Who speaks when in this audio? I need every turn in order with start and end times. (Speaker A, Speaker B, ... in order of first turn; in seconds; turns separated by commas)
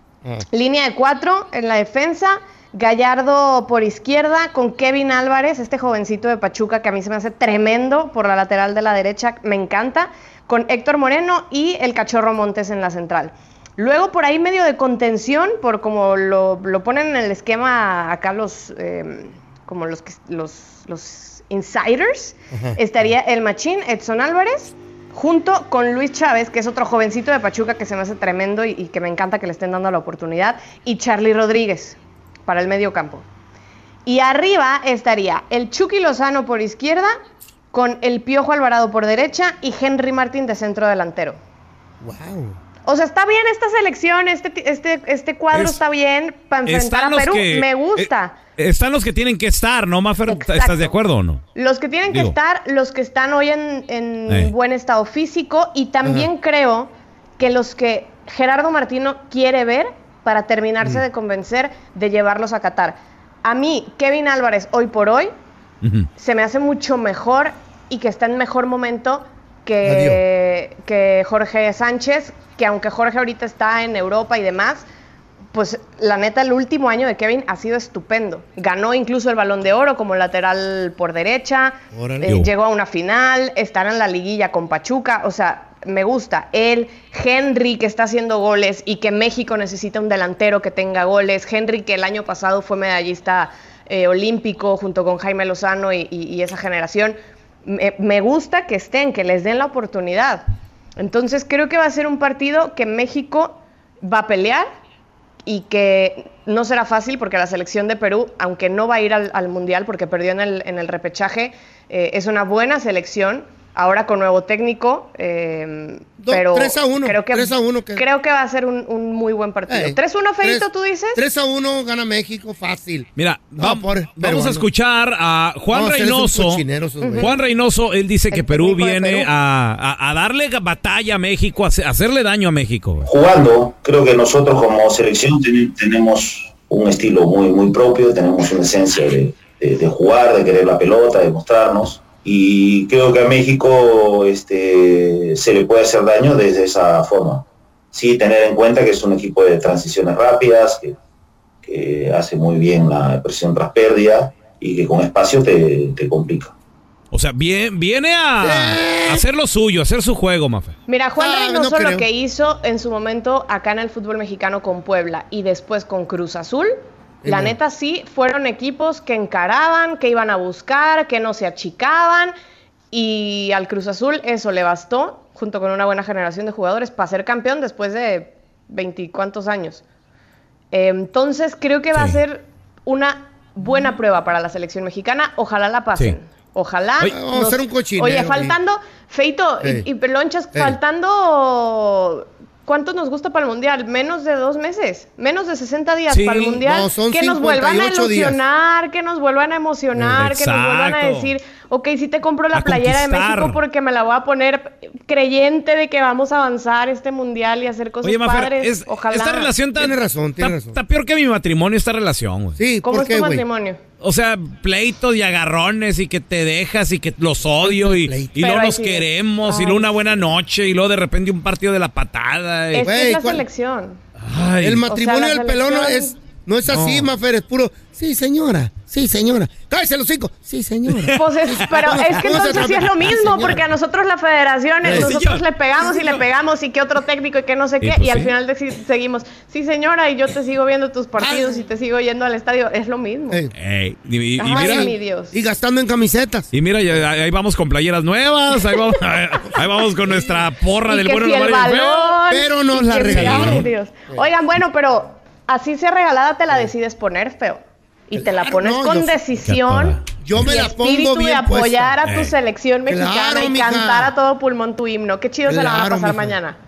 Speaker A: 0.5-33.2, Speaker A: 34.0-37.1, Speaker A: 37.7-41.4, Speaker B: 42.0-42.6, Speaker A: 42.9-48.4, Speaker C: 45.5-45.8, Speaker C: 46.6-51.4, Speaker A: 50.2-50.9, Speaker A: 51.5-65.3, Speaker C: 52.1-52.4, Speaker C: 54.3-54.5, Speaker C: 65.8-66.1, Speaker A: 66.2-74.8, Speaker B: 69.8-70.2, Speaker A: 75.5-100.4, Speaker B: 81.9-82.3, Speaker A: 101.0-104.7, Speaker A: 105.5-121.2, Speaker B: 116.2-118.0, Speaker B: 119.7-124.7, Speaker C: 123.2-126.6, Speaker B: 125.7-127.3, Speaker A: 127.0-127.3, Speaker C: 127.2-133.1, Speaker A: 128.3-129.3, Speaker D: 133.0-150.9, Speaker D: 151.6-156.5, Speaker C: 157.1-160.7, Speaker B: 158.4-159.2, Speaker A: 160.9-166.7, Speaker B: 161.2-162.1, Speaker B: 167.2-167.6, Speaker A: 167.2-172.3, Speaker A: 172.9-179.8, Speaker A: 180.7-209.5, Speaker C: 181.9-182.2, Speaker B: 187.0-188.5, Speaker C: 196.1-196.6, Speaker B: 196.6-198.4, Speaker C: 200.1-201.3, Speaker C: 202.5-203.6, Speaker C: 208.0-212.6, Speaker B: 209.8-210.8, Speaker B: 212.6-213.4, Speaker A: 212.8-213.8, Speaker C: 214.0-222.9, Speaker B: 217.6-218.4, Speaker A: 218.4-219.9, Speaker A: 222.7-224.0, Speaker B: 222.8-223.4, Speaker C: 224.2-224.8, Speaker B: 224.6-233.7, Speaker A: 224.8-226.1, Speaker C: 226.7-227.1, Speaker C: 230.9-232.5, Speaker A: 231.2-243.4, Speaker B: 234.8-235.2, Speaker C: 234.8-235.4, Speaker C: 237.8-238.3, Speaker B: 241.2-241.6, Speaker C: 243.5-244.9, Speaker A: 244.4-245.3, Speaker B: 244.5-246.5, Speaker C: 246.5-252.2, Speaker A: 250.9-266.6, Speaker B: 252.3-254.2, Speaker C: 253.1-253.7, Speaker B: 258.1-259.1, Speaker C: 259.4-260.5, Speaker B: 260.1-261.9, Speaker C: 262.0-262.3, Speaker B: 262.9-264.1, Speaker B: 265.5-266.4